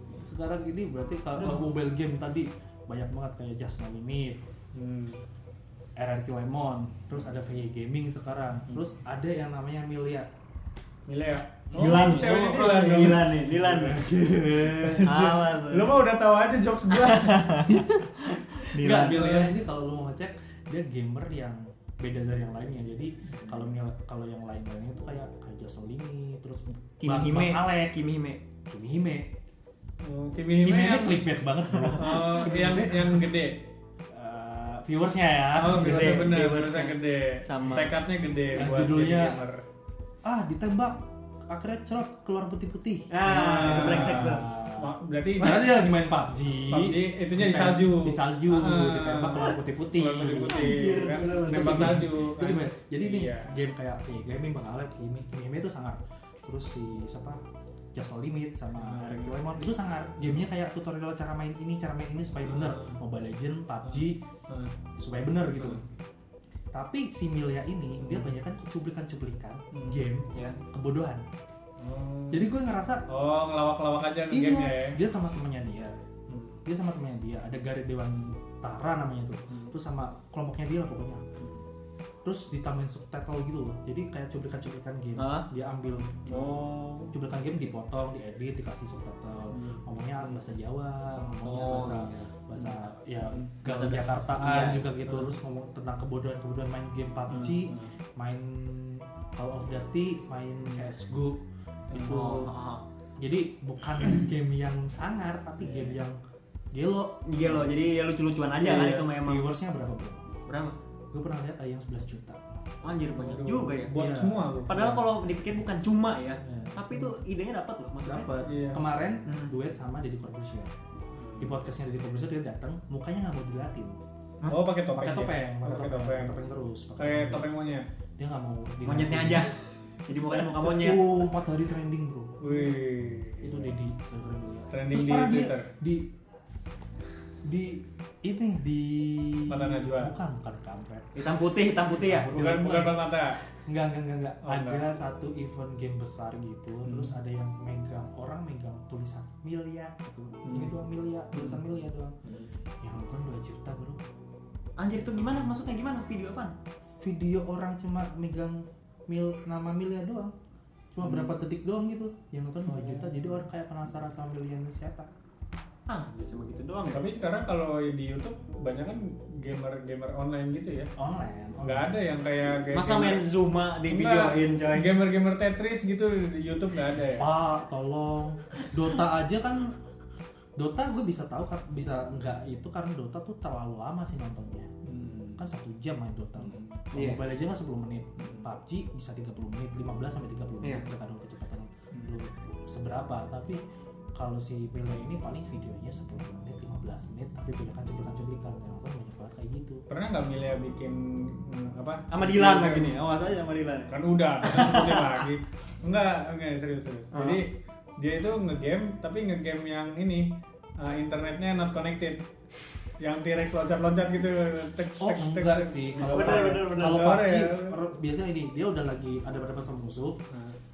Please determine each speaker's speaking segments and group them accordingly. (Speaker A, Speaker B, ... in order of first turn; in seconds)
Speaker A: 0.2-4.4, 6.0-10.3, 11.7-13.2, 13.9-15.2, 17.7-27.7, 28.7-29.3, 30.6-33.3, 34.1-36.4, 38.5-39.4, 40.2-57.4, 57.9-64.2, 65.0-65.8, 66.7-71.3, 72.3-73.0, 74.3-75.9, 76.6-81.2, 82.2-86.4, 87.1-102.5, 103.2-106.2, 106.7-107.8, 108.6-110.3, 111.1-112.6, 113.9-114.5, 116.4-117.1, 118.0-120.7, 121.4-124.0, 124.9-127.5, 128.2-129.5, 130.2-132.7, 133.4-136.1, 137.4-141.2, 141.9-152.1, 152.8-154.0, 157.0-160.3, 160.9-165.1, 171.0-171.9, 176.9-179.7, 180.6-184.7, 185.4-193.6, 194.2-199.8, 214.9-220.2
Speaker B: 4.7-5.2, 11.1-17.8, 18.9-19.5, 23.3-23.7, 30.0-31.3, 31.8-33.6, 35.5-39.6, 43.2-45.9, 46.7-53.5, 58.8-59.4, 62.5-62.9, 63.8-64.8, 68.0-68.3, 69.7-70.0, 71.8-72.5, 73.1-75.0, 76.3-76.6, 81.4-81.6, 86.2-86.5, 89.5-89.8, 91.2-91.4, 95.1-95.3, 97.3-97.9, 105.6-106.0, 113.2-115.1, 118.4-118.8, 121.1-121.6, 124.5-126.4, 127.0-127.9, 132.4-133.7, 134.7-135.7, 139.5-140.1, 142.3-143.4, 144.4-144.8, 146.8-147.1, 150.4-150.7, 151.4-151.6, 152.2-152.5, 161.0-161.3, 162.7-163.4, 166.9-170.9, 171.6-173.2, 173.9-177.3, 184.8-185.4, 186.4-186.8, 188.2-188.5, 191.9-192.2, 199.9-202.9, 203.9-212.2, 213.0-217.8, 220.3-220.6
Speaker C: 11.8-14.1, 14.9-16.0, 16.9-19.5, 27.0-28.4, 35.7-38.0, 43.1-44.5, 50.3-52.0, 85.2-85.5, 86.3-87.1, 91.4-92.3, 93.6-94.9, 101.9-102.8, 107.2-109.5, 110.5-110.8, 112.8-113.9, 114.7-118.3, 119.3-119.5, 128.8-131.3, 141.2-142.3, 154.8-156.6, 165.9-167.1, 172.7-174.9, 186.9-187.2, 190.6-190.9, 202.1-205.2, 207.1-207.4, 216.0-217.2